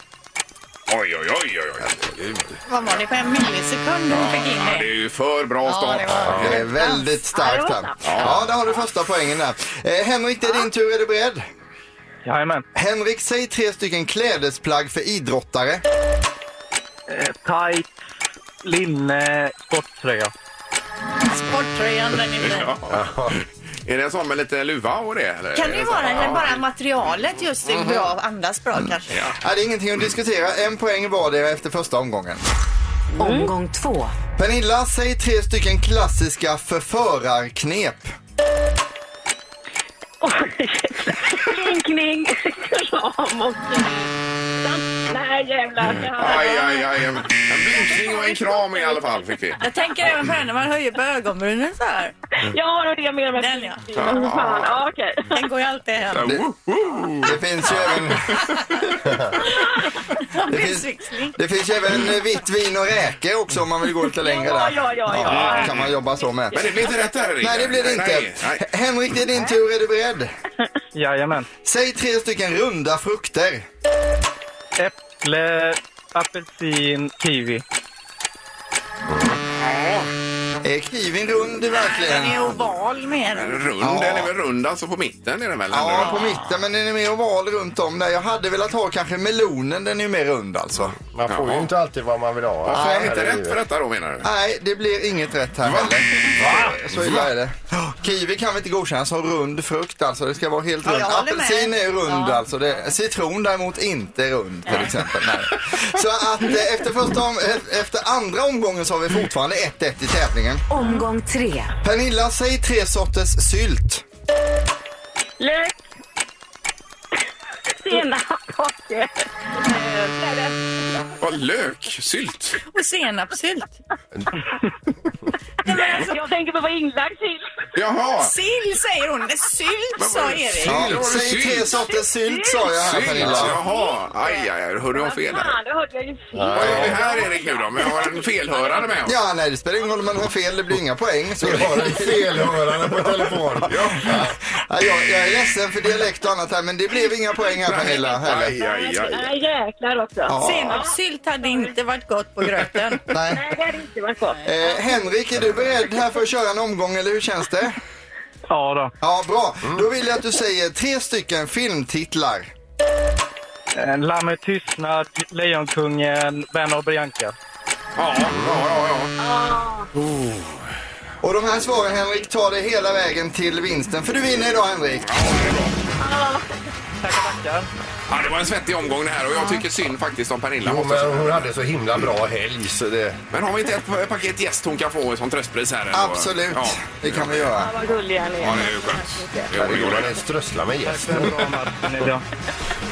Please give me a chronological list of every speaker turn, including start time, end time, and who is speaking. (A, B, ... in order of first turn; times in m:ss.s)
0:00.9-0:02.2 A
0:02.0-0:02.4 B
0:02.7-0:04.9 C
0:04.1-0:06.6 A
0:05.6-0:07.1 C
0:06.4-0:11.4 D
0:07.3-0:08.8 E
0:08.0-0:08.4 A
0:12.2-0:12.6 F
0:12.8-0:15.8 D
0:17.1-0:18.0 F
0:18.6-0:20.3 F
0:21.2-0:22.7 C
0:22.4-0:26.6 A
0:22.9-0:23.4 B
0:25.5-0:29.2 C
0:27.6-0:28.1 A
0:29.1-0:29.3 A
0:29.4-0:32.4 D
0:33.2-0:34.1 G
0:33.2-0:33.5 E
0:34.4-0:38.1 D
0:40.2-0:44.0 E
0:44.6-0:46.9 E
0:45.9-0:49.6 A
0:47.7-0:49.2 E
0:49.6-0:52.1 C
0:52.4-0:55.4 E
0:53.4-0:54.3 C
0:53.9-0:54.8 A
0:55.3-0:56.2 C
0:56.1-0:59.0 A
0:57.2-0:58.4 D
1:00.2-1:01.4 C
1:00.5-1:06.6 D
1:04.1-1:07.3 E
1:05.1-1:05.9 A
1:06.5-1:08.6 A
1:07.4-1:10.3 D
1:10.9-1:11.5 F
1:11.6-1:13.6 D
1:14.8-1:17.6 F
1:19.6-1:20.1 A
1:20.6-1:22.6 D
1:21.9-1:23.6 C
1:23.3-1:26.4 A
1:23.9-1:24.2 D
1:25.7-1:30.9 D
1:31.0-1:33.6 B
1:31.3-1:31.7 A
1:32.6-1:34.3 A
1:32.7-1:33.2 D
1:34.2-1:50.6 D
1:35.7-1:36.8 A
1:36.4-1:37.3 B
1:40.8-1:42.9 C
1:45.5-1:45.8 A
1:50.7-1:51.7 G
1:50.8-1:51.0 E
1:51.8-1:54.0 D
1:55.4-1:55.8 E
1:57.8-1:59.1 E
1:59.6-2:00.5 C
2:01.2-2:02.6 A
2:02.7-2:03.8 C
2:05.6-2:07.5 E
2:05.6-2:06.1 C
2:07.8-2:08.3 A
2:08.2-2:10.9 C
2:10.0-2:11.8 A
2:10.6-2:13.6 D
2:11.7-2:19.1 E
2:12.8-2:15.6 A
2:13.2-2:13.5 B
2:16.3-2:17.0 B
2:16.5-2:19.1 A
2:19.0-2:22.2 D
2:21.4-2:24.3 B
2:23.7-2:24.1 A
2:23.7-2:28.5 D
2:27.6-2:29.3 A
2:27.9-2:31.8 E
2:30.3-2:30.8 D
2:30.4-2:33.0 C
2:33.1-2:33.4 D
2:33.2-2:34.9 E
2:34.4-2:34.8 C
2:34.5-2:37.8 D
2:38.5-2:38.9 F
2:39.0-2:42.5 D
2:43.8-2:47.3 F
2:48.0-2:49.1 A
2:48.3-2:48.6 B
2:49.2-2:49.9 E
2:51.2-2:55.1 D
2:55.0-2:55.8 A
2:56.0-2:56.4 E
2:57.0-2:57.7 F
2:58.1-3:01.5 A
3:00.6-3:03.2 B
3:03.3-3:07.5 A
3:05.9-3:07.7 D
3:07.5-3:09.5 E
3:08.4-3:10.1 A
3:09.6-3:11.4 B
3:10.8-3:12.2 F